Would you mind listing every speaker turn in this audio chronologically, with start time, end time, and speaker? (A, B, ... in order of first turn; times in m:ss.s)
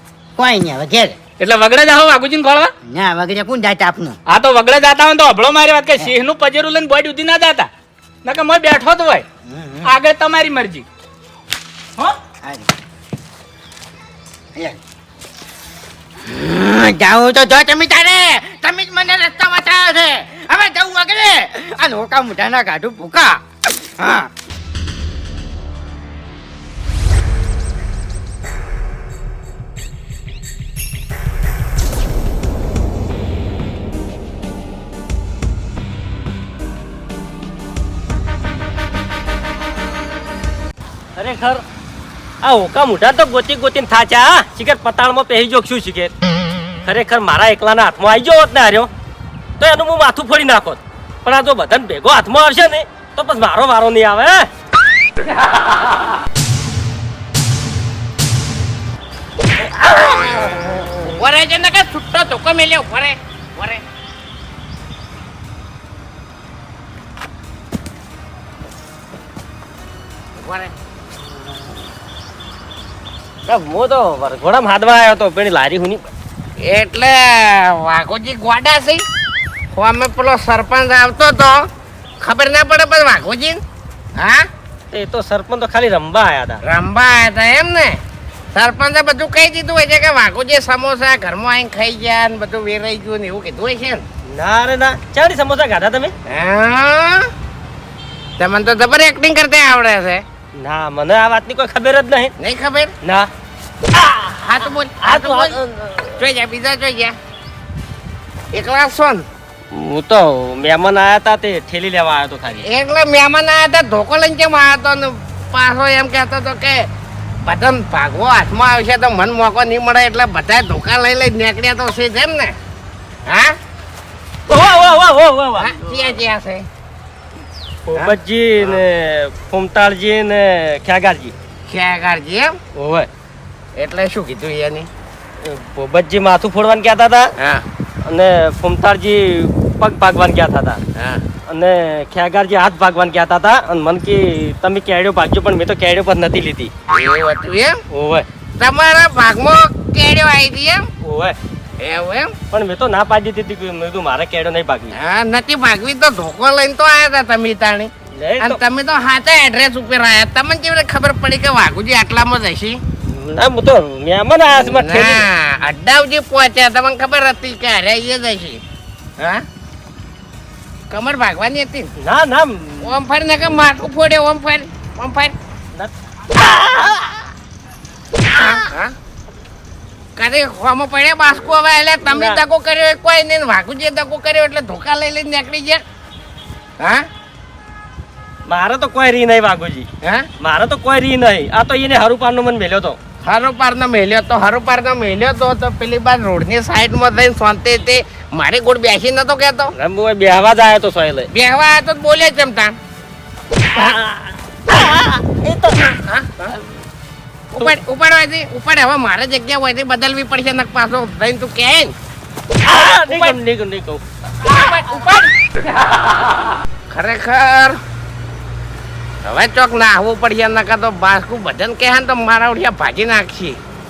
0:00.4-0:01.2 A
0:01.4-0:02.7 B
0:02.8-0:04.2 A
0:04.3-0:07.7 B
0:08.2-0:09.2 B
0:09.4-0:09.9 A
0:09.8-0:10.8 B
0:12.4-0:12.7 A
0:14.6-0:14.8 A
0:16.2-0:24.3 A
0:41.2-0:41.6 C
0:42.4-0:46.1 C
0:46.8-0:48.9 C
0:49.6-0:54.5 C
0:59.6-1:03.8 D
1:10.4-1:10.7 D
1:13.5-1:16.1 C
1:16.6-1:19.0 D
1:19.7-1:21.7 D
1:22.2-1:23.6 D
1:24.2-1:24.5 D
1:24.9-1:26.6 C
1:26.7-1:28.0 D
1:28.6-1:34.0 D
1:34.3-1:36.1 C
1:36.3-1:37.3 D
1:38.4-1:40.2 D
1:40.6-1:42.3 C
1:42.4-1:42.9 D
1:43.0-1:43.3 C
1:43.9-1:47.2 D
1:45.0-1:46.0 C
1:48.5-1:49.2 D
1:49.7-1:52.7 C
1:52.7-1:56.9 D
1:57.4-2:02.6 D
2:03.3-2:03.6 D
2:04.5-2:05.8 C
2:05.6-2:06.7 D
2:07.9-2:11.3 C
2:07.9-2:08.8 D
2:11.7-2:12.6 D
2:12.8-2:13.1 C
2:13.8-2:14.9 D
2:15.4-2:17.3 C
2:17.4-2:17.6 D
2:18.0-2:20.8 C
2:21.0-2:21.2 D
2:21.5-2:26.7 C
2:26.9-2:27.8 D
2:27.9-2:28.3 C
2:28.6-2:30.9 D
2:31.0-2:31.4 C
2:31.8-2:32.4 D
2:32.5-2:35.0 C
2:35.0-2:42.8 D
2:38.2-2:38.6 C
2:43.0-2:45.3 C
2:44.5-2:48.6 D
2:49.2-2:49.5 D
2:50.9-2:51.9 D
2:52.0-2:52.9 C
2:52.8-2:55.3 D
2:58.3-2:58.9 D
3:00.2-3:05.8 D
3:02.1-3:02.4 C
3:06.8-3:07.0 D
3:08.5-3:09.9 C
3:10.0-3:10.3 D
3:10.4-3:13.0 C
3:13.3-3:19.7 D
3:19.8-3:21.3 C
3:21.3-3:22.8 D
3:23.7-3:25.8 C
3:25.9-3:26.5 D
3:27.5-3:31.9 D
3:32.6-3:34.0 C
3:33.1-3:33.4 D
3:34.4-3:35.3 D
3:36.9-3:37.8 D
3:39.2-3:43.6 D